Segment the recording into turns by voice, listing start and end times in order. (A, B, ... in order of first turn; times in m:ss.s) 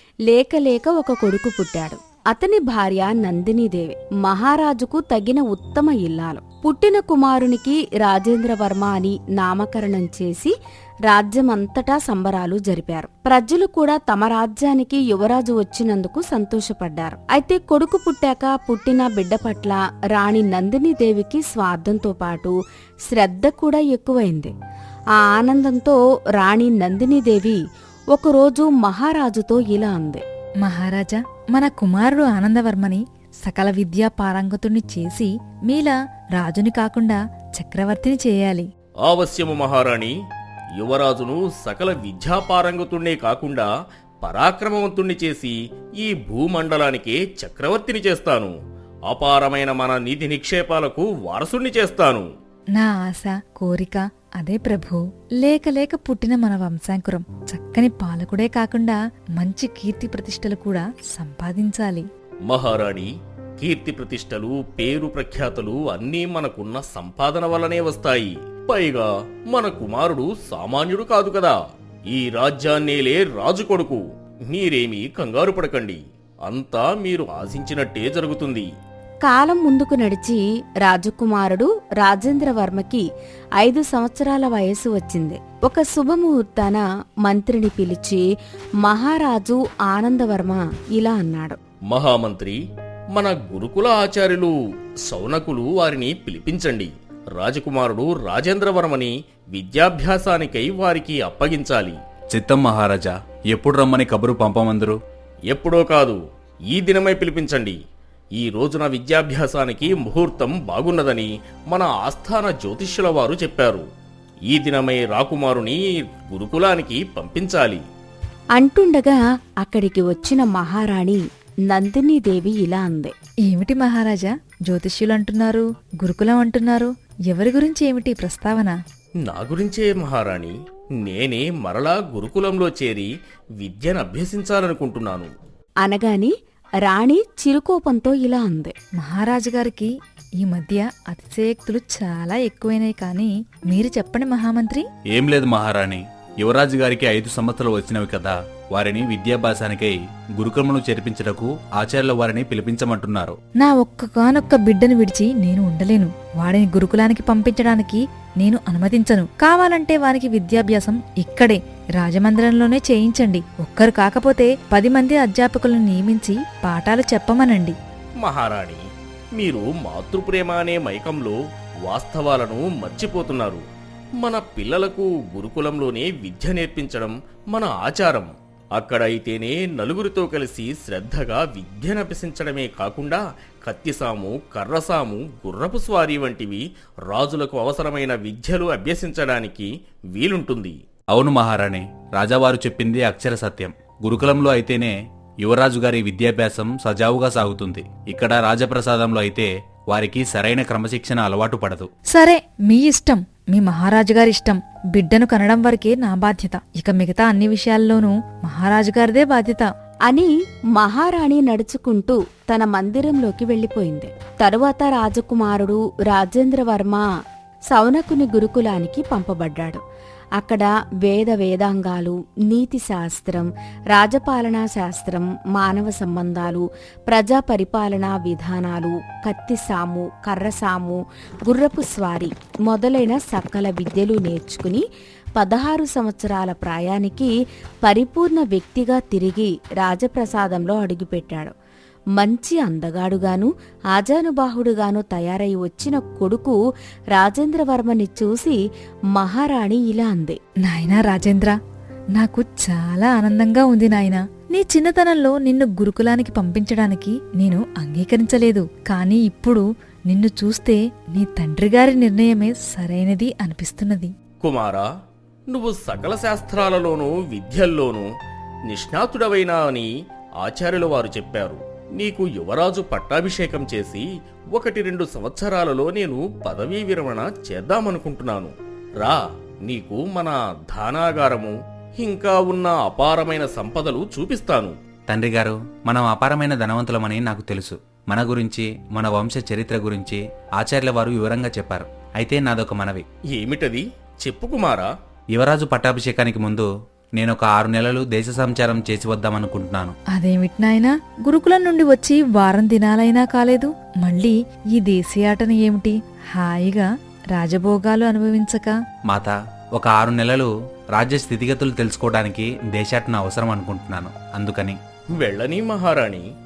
0:00.3-0:10.5 A
0:11.1-0:22.5 A
0:23.1-0:24.5 A
0:25.2-0:30.2 A
0:30.6-0:38.7 B
0:39.0-0:40.1 C
0:40.8-0:43.7 C
0:44.2-0:48.5 C
0:49.1-0:52.3 C
0:52.8-1:02.1 B
1:02.5-1:11.6 C
1:12.1-1:18.7 C
1:19.2-1:23.0 A
1:23.6-1:28.2 A
1:28.8-1:31.6 A
1:31.9-1:32.6 C
1:33.1-1:34.5 C
1:35.1-1:42.0 C
1:42.3-1:45.0 D
1:45.5-1:46.2 C
1:46.7-1:47.8 C
1:48.4-1:53.8 C
1:54.5-1:57.8 C
1:58.6-2:03.1 A
2:03.5-2:08.8 B
2:09.2-2:15.3 C
2:15.8-2:16.3 A
2:16.8-2:18.7 A
2:19.0-2:24.8 B
2:25.1-2:33.4 D
2:33.6-2:47.8 B
2:48.2-2:48.8 C
2:49.4-2:51.4 C
2:51.9-2:53.6 C
2:54.2-3:10.8 C
3:11.1-3:21.9 D
3:22.1-3:29.7 B
3:30.1-3:37.0 A
3:37.7-3:39.8 A
3:40.4-3:54.8 A
3:55.4-4:01.5 A
4:02.2-4:06.6 A
4:07.1-4:08.6 A
4:09.1-4:10.4 A
4:10.6-4:11.6 B
4:12.2-4:24.1 B
4:24.4-4:24.9 C
4:25.5-4:28.1 C
4:28.7-4:29.9 C
4:30.4-4:44.7 C
4:45.1-4:53.0 D
4:53.3-4:54.9 C
4:55.3-5:00.0 D
5:00.1-5:08.8 B
5:09.1-5:14.8 D
5:15.2-5:16.2 C